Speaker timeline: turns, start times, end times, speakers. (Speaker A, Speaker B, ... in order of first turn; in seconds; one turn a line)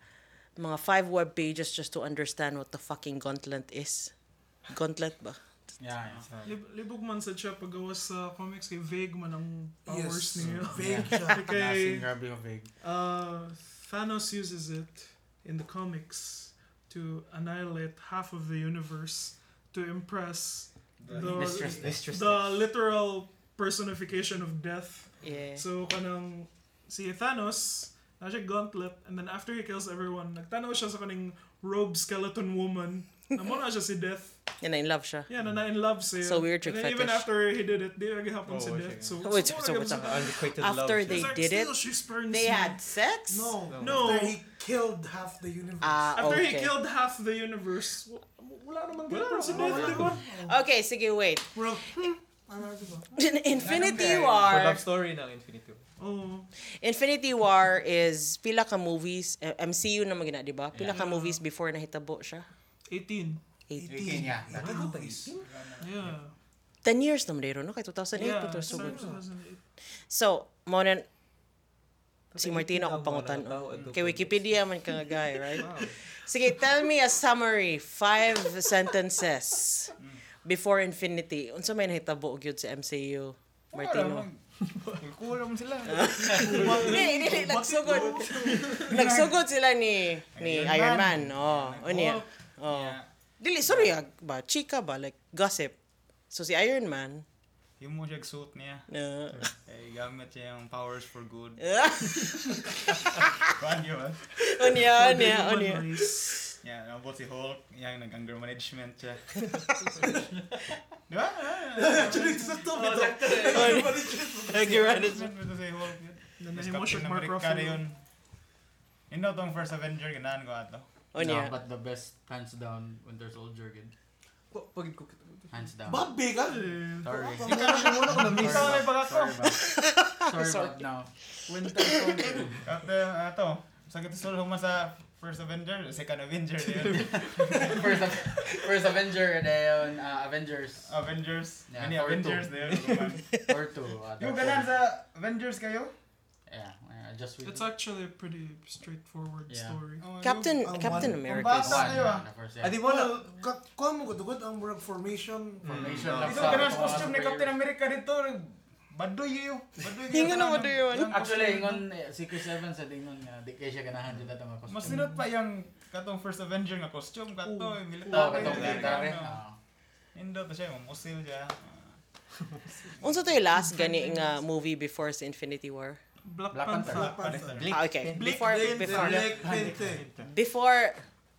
Speaker A: 0.6-4.1
Speaker A: 4.7-5.4
Speaker B: 5.8-6.2
Speaker C: 6.3-6.6
Speaker D: 6.5-12.1
Speaker E: 9.9-11.5
Speaker C: 10.4-10.8
Speaker B: 10.8-12.7
Speaker D: 12.8-34.4
Speaker F: 21.0-21.5
Speaker E: 21.1-21.8
Speaker B: 21.2-21.9
Speaker C: 21.8-22.6
Speaker A: 25.2-25.7
Speaker A: 34.6-35.3
Speaker D: 35.3-40.3
Speaker A: 36.2-37.3
Speaker C: 38.5-39.3
Speaker A: 39.2-43.6
Speaker C: 39.8-41.5
Speaker D: 41.1-42.8
Speaker E: 43.3-46.4
Speaker C: 43.7-44.2
Speaker D: 43.8-44.4
Speaker A: 45.8-46.7
Speaker D: 46.2-50.2
Speaker C: 49.1-50.1
Speaker E: 49.2-50.6
Speaker B: 49.7-50.0
Speaker A: 49.8-51.5
Speaker E: 51.5-53.2
Speaker A: 53.2-54.8
Speaker C: 53.6-55.8
Speaker D: 56.0-56.5
Speaker A: 56.8-62.5
Speaker D: 60.9-61.4
Speaker D: 62.9-63.4
Speaker A: 63.7-64.0
Speaker E: 63.8-65.3
Speaker B: 63.9-65.0
Speaker C: 64.2-66.1
Speaker F: 65.4-65.9
Speaker D: 65.8-66.3
Speaker A: 66.8-69.0
Speaker D: 68.2-69.6
Speaker E: 68.7-69.2
Speaker A: 70.1-71.1
Speaker C: 72.3-74.7
Speaker A: 72.4-75.7
Speaker F: 73.8-74.0
Speaker C: 75.5-76.0
Speaker A: 76.2-84.3
Speaker F: 83.7-84.5
Speaker F: 85.0-86.8
Speaker A: 85.9-95.8
Speaker E: 86.3-89.0
Speaker F: 88.8-89.4
Speaker F: 90.3-93.1
Speaker A: 96.3-97.2
Speaker F: 97.8-98.9
Speaker A: 98.9-99.4
Speaker F: 99.5-101.8
Speaker A: 101.6-103.3
Speaker F: 103.5-104.2
Speaker A: 104.5-106.1
Speaker D: 104.8-106.5
Speaker F: 106.6-109.5
Speaker F: 111.1-112.3
Speaker E: 111.8-114.8
Speaker D: 112.0-112.5
Speaker A: 113.3-115.3
Speaker F: 114.5-118.0
Speaker D: 116.4-117.8
Speaker F: 119.1-120.8
Speaker A: 121.1-121.5
Speaker B: 121.2-123.9
Speaker C: 124.5-125.7
Speaker B: 125.5-126.2
Speaker E: 125.9-128.5
Speaker D: 126.5-127.1
Speaker B: 127.0-131.1
Speaker F: 127.4-129.5
Speaker C: 128.0-128.9
Speaker A: 129.4-130.8
Speaker F: 131.5-138.1
Speaker A: 131.8-132.2
Speaker B: 131.9-132.6
Speaker B: 136.8-140.9
Speaker F: 140.8-143.5
Speaker B: 141.7-142.7
Speaker C: 142.7-143.2
Speaker B: 143.5-144.7
Speaker F: 144.2-145.9
Speaker B: 146.5-147.7
Speaker D: 147.4-150.0
Speaker B: 149.5-149.8
Speaker F: 150.0-152.3
Speaker A: 150.2-151.9
Speaker E: 150.7-151.3
Speaker B: 151.3-152.8
Speaker C: 152.6-153.3
Speaker E: 152.8-157.1
Speaker C: 155.7-157.0
Speaker B: 155.7-157.5
Speaker F: 156.2-161.8
Speaker A: 160.1-161.1
Speaker B: 161.1-165.1
Speaker F: 164.7-169.4
Speaker D: 167.4-169.0
Speaker B: 168.1-169.6
Speaker C: 168.4-169.0
Speaker F: 170.1-172.0
Speaker F: 172.8-173.3
Speaker A: 173.0-176.0
Speaker D: 173.5-174.4
Speaker D: 176.2-177.3
Speaker B: 176.5-177.6
Speaker F: 176.9-178.2
Speaker E: 176.9-177.7
Speaker C: 177.6-178.9
Speaker A: 177.7-179.4
Speaker E: 178.2-180.1
Speaker B: 179.0-180.0
Speaker C: 179.8-180.3
Speaker A: 180.2-181.1